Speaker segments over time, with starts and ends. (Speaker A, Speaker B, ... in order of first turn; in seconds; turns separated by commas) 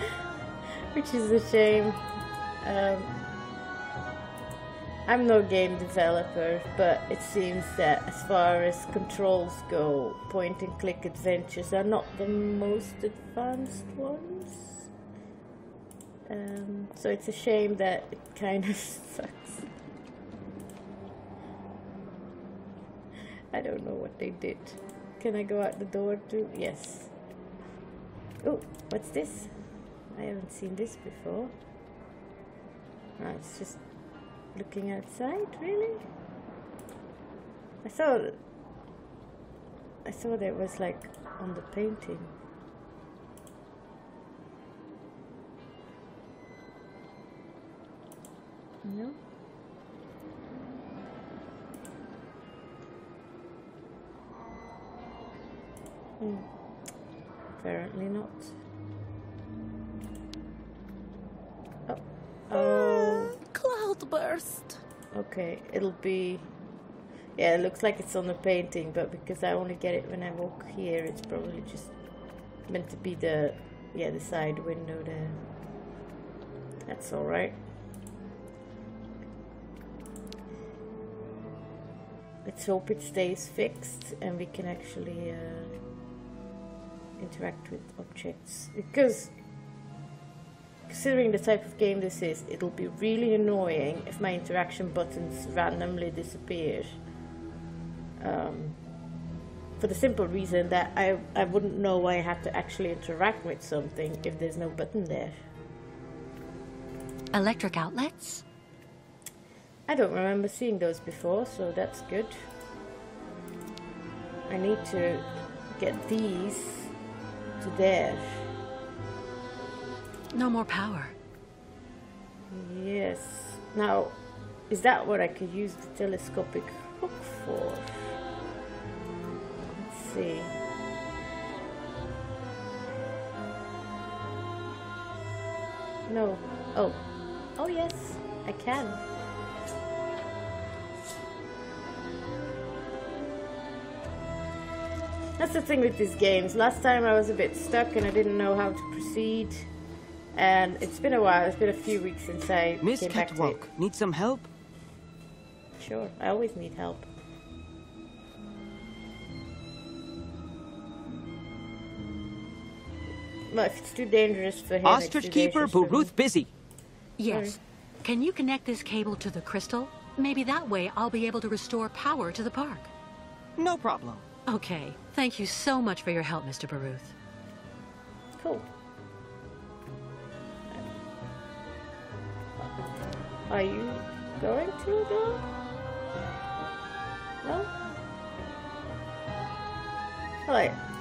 Speaker A: 0.9-2.1, Speaker A: 2.6-3.1, Speaker A: 5.0-14.9, Speaker A: 16.3-19.7, Speaker A: 23.5-27.1, Speaker A: 28.4-31.5, Speaker A: 33.2-33.9, Speaker A: 34.5-36.1, Speaker A: 37.8-38.4, Speaker A: 40.0-42.3, Speaker A: 48.8-49.2, Speaker A: 56.2-56.5, Speaker A: 57.5-58.6, Speaker A: 61.9-63.4, Speaker B: 62.5-64.8, Speaker A: 65.1-66.5, Speaker A: 67.3-72.0, Speaker A: 72.6-75.5, Speaker A: 76.8-77.6, Speaker A: 82.4-85.8, Speaker A: 87.2-89.4, Speaker A: 90.9-97.1, Speaker A: 98.2-98.8, Speaker A: 99.8-105.4, Speaker C: 107.3-108.4, Speaker A: 109.9-112.5, Speaker A: 114.5-116.9, Speaker A: 117.6-118.5, Speaker C: 120.3-121.1, Speaker A: 122.5-128.1, Speaker A: 129.7-130.6, Speaker A: 136.1-139.0, Speaker A: 145.4-149.7, Speaker A: 150.3-153.6, Speaker D: 152.8-154.5, Speaker A: 155.8-157.1, Speaker A: 163.5-166.1, Speaker D: 164.8-166.5, Speaker C: 167.2-172.9, Speaker A: 167.3-167.6, Speaker D: 173.6-174.2, Speaker C: 174.5-177.1, Speaker A: 178.4-178.7, Speaker A: 183.4-185.4, Speaker A: 187.4-187.8, Speaker A: 190.4-190.8